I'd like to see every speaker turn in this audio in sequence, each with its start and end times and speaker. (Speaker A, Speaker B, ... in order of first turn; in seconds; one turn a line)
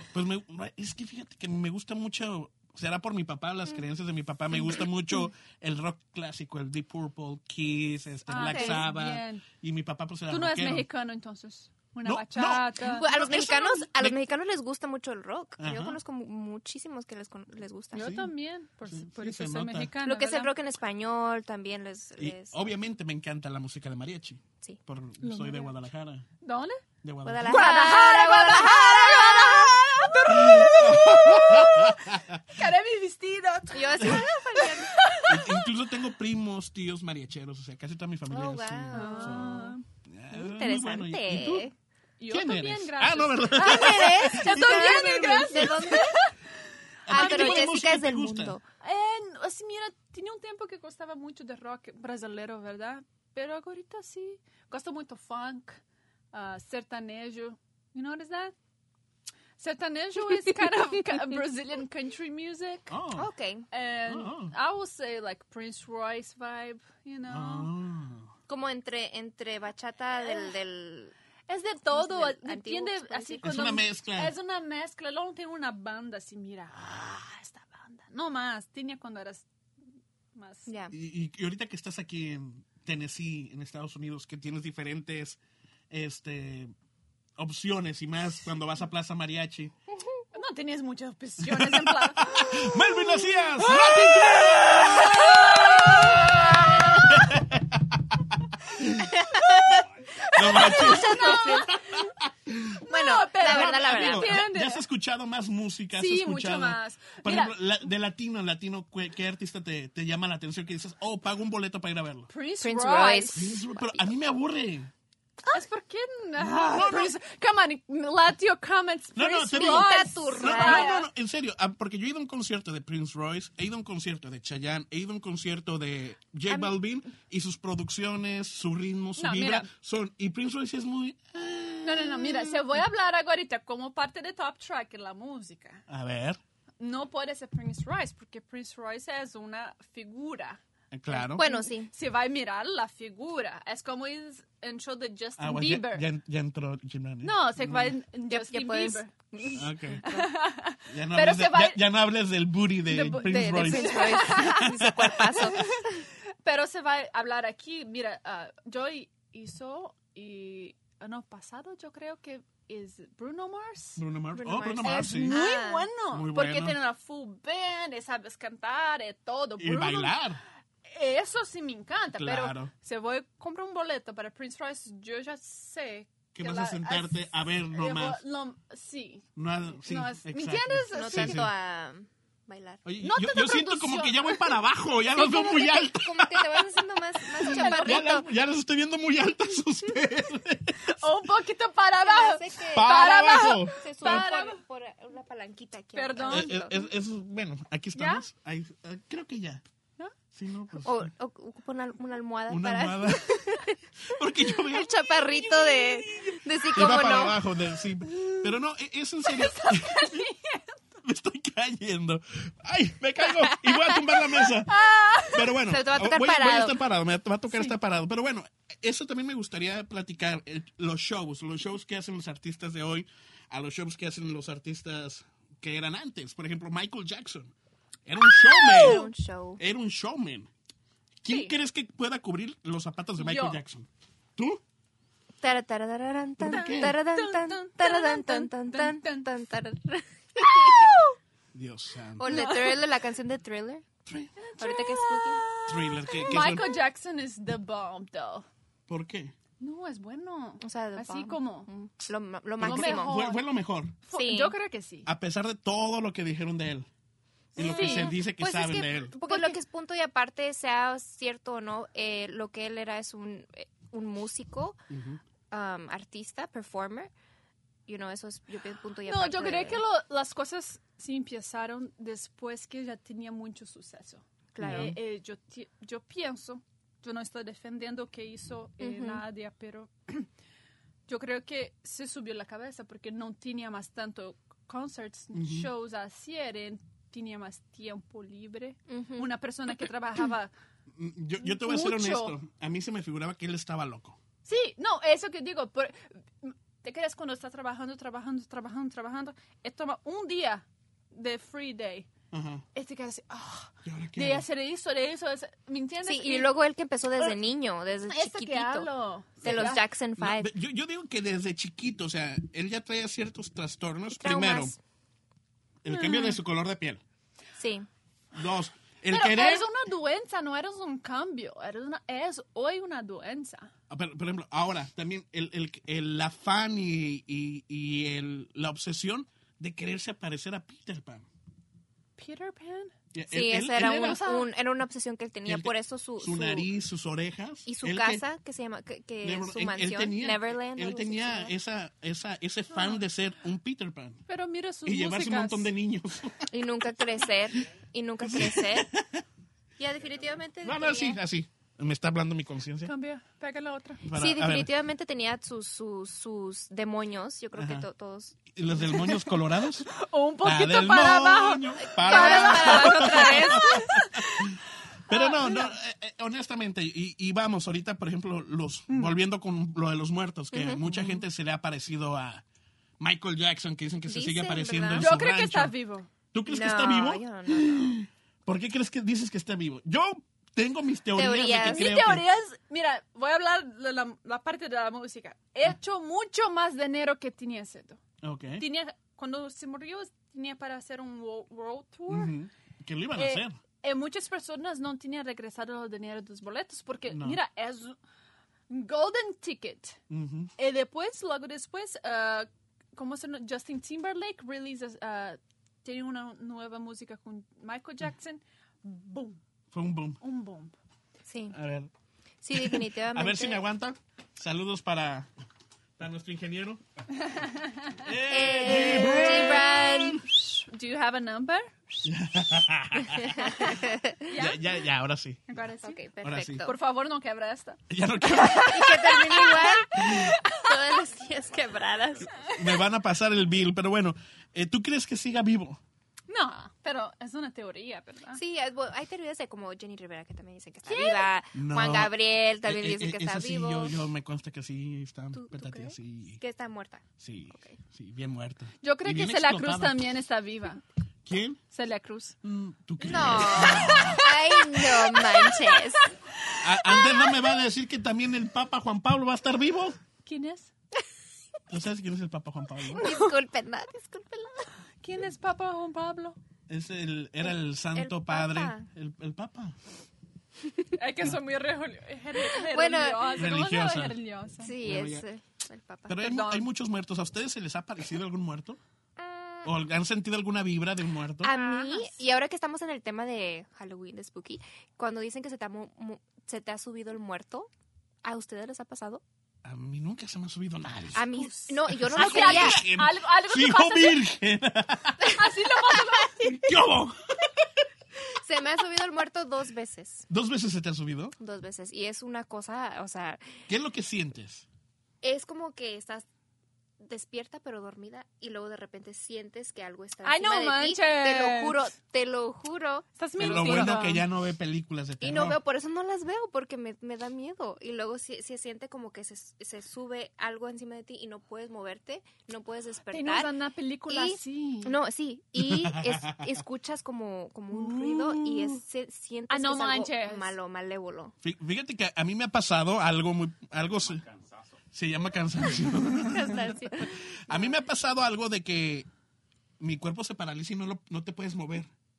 Speaker A: 0.1-10.9
Speaker B: 8.3-9.4
Speaker C: 8.3-8.8
Speaker B: 10.3-13.8
Speaker A: 12.0-14.2
Speaker C: 12.9-18.1
Speaker A: 15.6-16.0
Speaker B: 17.9-20.5
Speaker A: 18.0-18.3
Speaker A: 18.9-19.9
Speaker C: 20.0-22.6
Speaker A: 22.2-26.2
Speaker B: 26.4-26.8
Speaker A: 27.0-27.7
Speaker C: 27.2-30.2
Speaker B: 27.4-35.7
Speaker A: 30.2-32.6
Speaker C: 33.7-35.0
Speaker A: 35.2-41.7
Speaker C: 38.3-39.8
Speaker B: 38.9-39.8
Speaker C: 40.3-41.7
Speaker B: 42.2-46.3
Speaker A: 42.3-46.0
Speaker C: 43.5-46.2
Speaker A: 47.0-48.6
Speaker B: 47.1-47.8
Speaker C: 47.1-48.6
Speaker B: 48.8-55.8
Speaker B: 56.3-58.5
Speaker B: 59.6-63.0
Speaker A: 62.9-63.3
Speaker C: 63.1-63.6
Speaker B: 63.7-67.7
Speaker A: 64.0-64.5
Speaker A: 67.3-68.3
Speaker C: 68.5-71.1
Speaker B: 71.5-79.5
Speaker C: 71.9-73.6
Speaker A: 73.4-74.3
Speaker B: 80.3-80.7
Speaker C: 80.7-80.9
Speaker A: 80.9-85.4
Speaker A: 85.9-86.7
Speaker A: 87.4-89.7
Speaker B: 90.3-92.9
Speaker A: 91.4-102.8
Speaker B: 93.6-97.2
Speaker C: 99.2-99.8
Speaker B: 100.2-102.0
Speaker C: 100.4-101.7
Speaker B: 102.8-104.8
Speaker C: 102.9-104.4
Speaker A: 103.4-112.3
Speaker B: 106.0-107.5
Speaker B: 112.3-113.6
Speaker C: 112.6-114.1
Speaker A: 113.3-114.9
Speaker B: 115.5-121.0
Speaker A: 116.4-117.1
Speaker A: 119.1-132.8
Speaker C: 119.5-121.0
Speaker B: 129.2-129.7
Speaker B: 131.8-135.8
Speaker A: 135.9-136.4
Speaker B: 136.8-140.6
Speaker A: 140.9-141.4
Speaker B: 141.1-146.0
Speaker C: 141.3-141.9
Speaker A: 145.4-148.0
Speaker B: 147.2-149.3
Speaker C: 148.3-150.3
Speaker A: 149.6-150.0
Speaker B: 150.0-151.8
Speaker A: 150.9-155.5
Speaker B: 152.8-154.7
Speaker C: 153.1-155.7
Speaker B: 155.4-164.0
Speaker A: 164.0-165.5
Speaker C: 164.3-165.9
Speaker B: 164.7-170.2
Speaker A: 166.1-166.8
Speaker A: 169.6-170.4
Speaker B: 170.8-179.3
Speaker A: 172.1-172.7
Speaker A: 176.3-178.2
Speaker A: 179.3-181.5
Speaker B: 179.8-181.4
Speaker C: 180.9-182.8
Speaker A: 182.8-191.1
Speaker B: 183.0-184.5
Speaker C: 185.1-188.2
Speaker B: 187.4-188.1
Speaker B: 190.8-194.6
Speaker C: 192.0-196.8
Speaker A: 192.7-194.3
Speaker B: 195.9-196.6
Speaker A: 196.2-199.6
Speaker B: 197.9-198.2
Speaker A: 200.3-201.1
Speaker C: 200.8-203.8
Speaker A: 202.5-210.3
Speaker C: 204.4-207.4
Speaker B: 208.1-208.5
Speaker B: 209.2-210.8
Speaker A: 211.0-227.5
Speaker C: 213.7-213.9
Speaker B: 214.5-215.5
Speaker C: 215.7-216.8
Speaker B: 217.5-217.7
Speaker A: 228.1-230.5
Speaker B: 228.6-229.1
Speaker C: 228.6-229.6
Speaker A: 231.2-234.6
Speaker B: 231.3-231.5
Speaker B: 233.2-233.6
Speaker C: 235.4-241.0
Speaker A: 236.4-237.0
Speaker B: 236.5-239.3
Speaker B: 240.6-241.1
Speaker A: 241.5-242.2
Speaker C: 242.2-243.8
Speaker B: 242.2-242.8
Speaker A: 244.1-244.3
Speaker B: 244.4-248.4
Speaker C: 244.6-245.5
Speaker A: 245.7-246.7
Speaker A: 248.9-249.3
Speaker B: 249.6-251.7
Speaker C: 250.6-253.2
Speaker A: 252.6-253.9
Speaker B: 252.6-253.4
Speaker B: 254.1-255.1
Speaker C: 254.1-254.5
Speaker A: 255.1-256.9
Speaker A: 257.6-259.1
Speaker C: 257.6-264.8
Speaker B: 257.6-258.1
Speaker B: 259.2-259.6
Speaker A: 264.9-265.2
Speaker C: 265.5-267.1
Speaker C: 267.9-269.8
Speaker B: 269.1-280.3
Speaker C: 274.5-275.0
Speaker A: 274.6-275.0
Speaker C: 278.8-279.2
Speaker B: 281.1-290.5
Speaker A: 285.3-285.7
Speaker C: 288.9-289.3
Speaker A: 290.9-294.2
Speaker B: 291.4-292.4
Speaker B: 294.4-302.1
Speaker A: 302.3-302.6
Speaker B: 302.7-306.5
Speaker A: 303.8-304.4
Speaker C: 306.0-308.9
Speaker B: 308.1-309.8
Speaker C: 309.4-310.5
Speaker A: 309.4-314.7
Speaker C: 314.1-314.8
Speaker A: 315.8-317.0
Speaker B: 315.9-316.4
Speaker C: 317.6-317.9
Speaker A: 318.3-319.7
Speaker B: 319.1-323.7
Speaker A: 323.9-331.2
Speaker B: 332.2-332.9
Speaker A: 333.1-334.2
Speaker C: 333.3-336.7
Speaker B: 333.8-334.5
Speaker A: 335.5-338.2
Speaker C: 337.6-341.5
Speaker A: 339.2-344.2
Speaker B: 342.7-343.0
Speaker B: 344.3-345.7
Speaker A: 344.8-346.5
Speaker C: 346.5-348.9
Speaker A: 348.2-349.2
Speaker C: 349.8-351.2
Speaker A: 350.6-352.9
Speaker B: 352.9-354.0
Speaker A: 354.0-354.7
Speaker C: 354.1-358.4
Speaker A: 357.6-357.9
Speaker A: 358.5-359.9
Speaker B: 358.8-359.3
Speaker B: 359.9-365.7
Speaker A: 360.4-372.4
Speaker C: 361.9-363.9
Speaker C: 370.5-371.2
Speaker A: 373.0-375.7
Speaker C: 374.1-375.1
Speaker B: 375.0-376.1
Speaker A: 376.3-382.2
Speaker C: 376.5-377.9
Speaker C: 381.1-381.9
Speaker B: 381.5-388.0
Speaker A: 388.2-388.6
Speaker B: 388.6-392.3
Speaker A: 392.1-393.5
Speaker B: 393.1-397.9
Speaker A: 397.1-397.4
Speaker B: 398.7-400.0
Speaker A: 400.1-400.5
Speaker B: 400.6-409.4
Speaker A: 409.7-410.2
Speaker B: 410.2-410.7
Speaker C: 411.3-411.6
Speaker A: 411.5-411.9
Speaker C: 412.4-413.6
Speaker A: 412.5-415.3
Speaker A: 416.0-416.8
Speaker B: 417.3-418.0
Speaker A: 418.0-420.2
Speaker C: 418.3-420.3
Speaker B: 418.9-419.5
Speaker B: 420.3-422.1
Speaker A: 422.0-425.6
Speaker C: 423.2-424.3
Speaker B: 424.3-424.7
Speaker B: 425.5-426.0
Speaker C: 425.8-426.7
Speaker A: 426.2-426.7
Speaker B: 426.6-431.0
Speaker A: 427.9-429.1
Speaker C: 428.7-432.3
Speaker A: 430.0-430.3
Speaker A: 432.3-435.8
Speaker B: 436.3-438.4
Speaker C: 438.3-443.9
Speaker B: 440.9-441.3
Speaker A: 441.5-446.4
Speaker C: 445.3-447.8
Speaker A: 447.2-450.1
Speaker B: 448.8-450.8
Speaker A: 451.2-451.6
Speaker B: 451.7-452.4
Speaker A: 452.4-454.2
Speaker C: 453.0-456.1
Speaker B: 453.5-457.5
Speaker A: 456.6-460.0
Speaker B: 460.2-460.7
Speaker A: 461.7-463.1
Speaker C: 462.9-464.7
Speaker B: 463.0-463.3
Speaker B: 465.0-466.4
Speaker A: 466.7-469.8
Speaker C: 467.4-468.9
Speaker B: 470.9-474.7
Speaker C: 472.6-473.4
Speaker A: 473.3-474.2
Speaker C: 474.6-476.2
Speaker A: 474.8-475.2
Speaker A: 476.1-478.8
Speaker B: 476.2-476.7
Speaker C: 479.2-479.7
Speaker A: 479.6-481.5
Speaker C: 481.4-487.7
Speaker B: 481.5-482.1
Speaker C: 488.2-489.2
Speaker A: 489.6-491.3
Speaker C: 491.1-492.8
Speaker B: 491.4-494.2
Speaker A: 491.9-495.4
Speaker B: 495.3-496.5
Speaker A: 496.4-497.7
Speaker C: 498.4-500.3
Speaker A: 500.3-501.3
Speaker C: 501.4-503.4
Speaker A: 503.7-504.6
Speaker C: 505.2-506.2
Speaker C: 507.0-513.9
Speaker B: 510.2-511.9
Speaker B: 513.2-514.2
Speaker A: 513.4-515.6
Speaker C: 515.2-523.5
Speaker B: 523.1-525.0
Speaker C: 524.1-531.3
Speaker A: 525.6-526.5
Speaker B: 527.7-528.8
Speaker B: 529.5-530.5
Speaker A: 531.4-534.4
Speaker A: 534.9-539.1
Speaker C: 536.2-537.7
Speaker A: 539.8-541.9